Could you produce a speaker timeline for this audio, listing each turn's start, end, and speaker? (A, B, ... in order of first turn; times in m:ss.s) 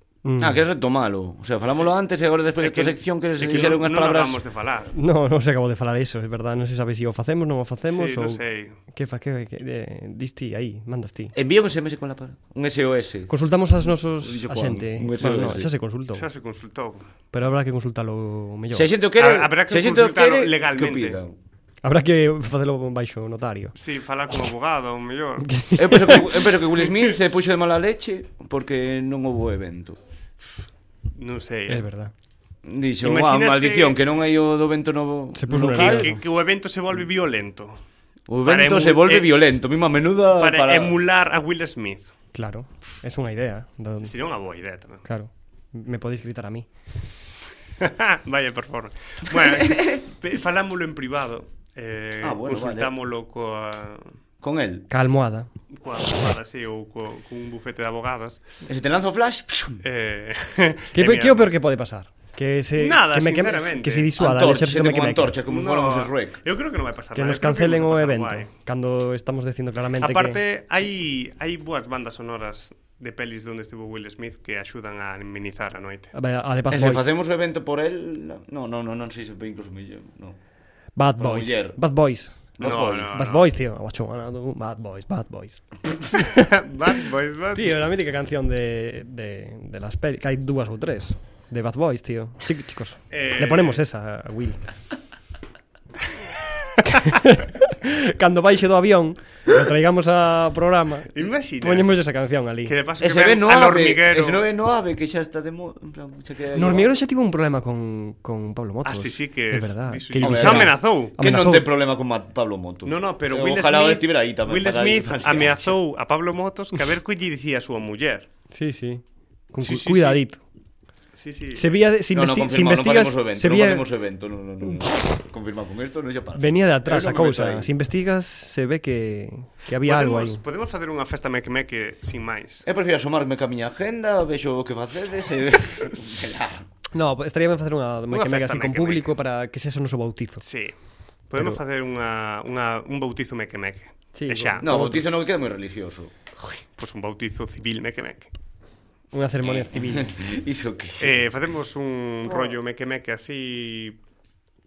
0:00.2-0:00.6 A
0:00.4-0:04.4 B
0:01.7-0:01.9 C
0:02.6-0:04.9 C
0:05.0-0:11.4 A
0:07.9-0:08.8 C
0:11.3-0:15.7 B
0:13.3-0:16.3 A
0:16.1-0:17.1 C
0:17.3-0:18.9 A
0:18.7-0:21.4 B
0:19.2-0:21.2 C
0:21.8-0:23.7 A
0:23.8-0:25.6 C
0:25.4-0:26.3 A
0:25.8-0:30.0 B
0:31.1-0:31.9 C
0:31.7-0:32.1 A
0:32.6-0:36.2 B
0:33.0-0:34.0 C
0:35.4-0:36.2 A
0:35.7-0:37.8 C
0:38.3-0:41.0 B
0:38.4-0:39.3 C
0:40.4-0:42.1 C
0:42.3-0:44.1 A
0:44.0-0:45.0 C
0:45.0-0:46.7 A
0:47.8-0:54.1 C
0:49.4-0:49.9 B
0:52.2-0:52.9 B
0:54.4-0:54.9 B
0:54.9-0:55.5 A
0:55.7-0:58.5 C
0:58.7-0:59.8 B
0:59.8-1:01.5 C
1:01.0-1:05.4 A
1:02.8-1:04.1 C
1:04.2-1:06.4 B
1:05.5-1:08.5 C
1:07.2-1:10.4 A
1:10.0-1:16.1 C
1:16.1-1:17.1 A
1:16.7-1:20.4 B
1:21.0-1:22.6 A
1:21.2-1:21.8 B
1:22.6-1:23.2 B
1:22.6-1:23.5 C
1:23.1-1:26.3 A
1:26.3-1:27.8 C
1:27.5-1:34.6 A
1:33.1-1:33.8 C
1:36.9-1:42.7 A
1:41.1-1:42.0 C
1:42.7-1:44.5 C
1:43.0-1:46.9 B
1:46.6-1:51.7 A
1:48.8-1:51.1 C
1:50.2-1:55.8 B
1:52.8-1:58.3 C
1:58.5-2:00.4 A
1:59.6-2:00.2 C
2:01.1-2:01.8 C
2:01.6-2:03.9 A
2:02.1-2:07.7 B
2:06.4-2:10.4 A
2:09.8-2:12.6 C
2:12.6-2:16.7 B
2:16.9-2:20.4 A
2:18.1-2:19.1 C
2:20.4-2:20.7 C
2:21.3-2:24.7 C
2:24.2-2:25.0 A
2:24.6-2:26.1 B
2:26.4-2:28.3 C
2:29.1-2:30.1 A
2:29.5-2:31.2 B
2:31.0-2:34.0 C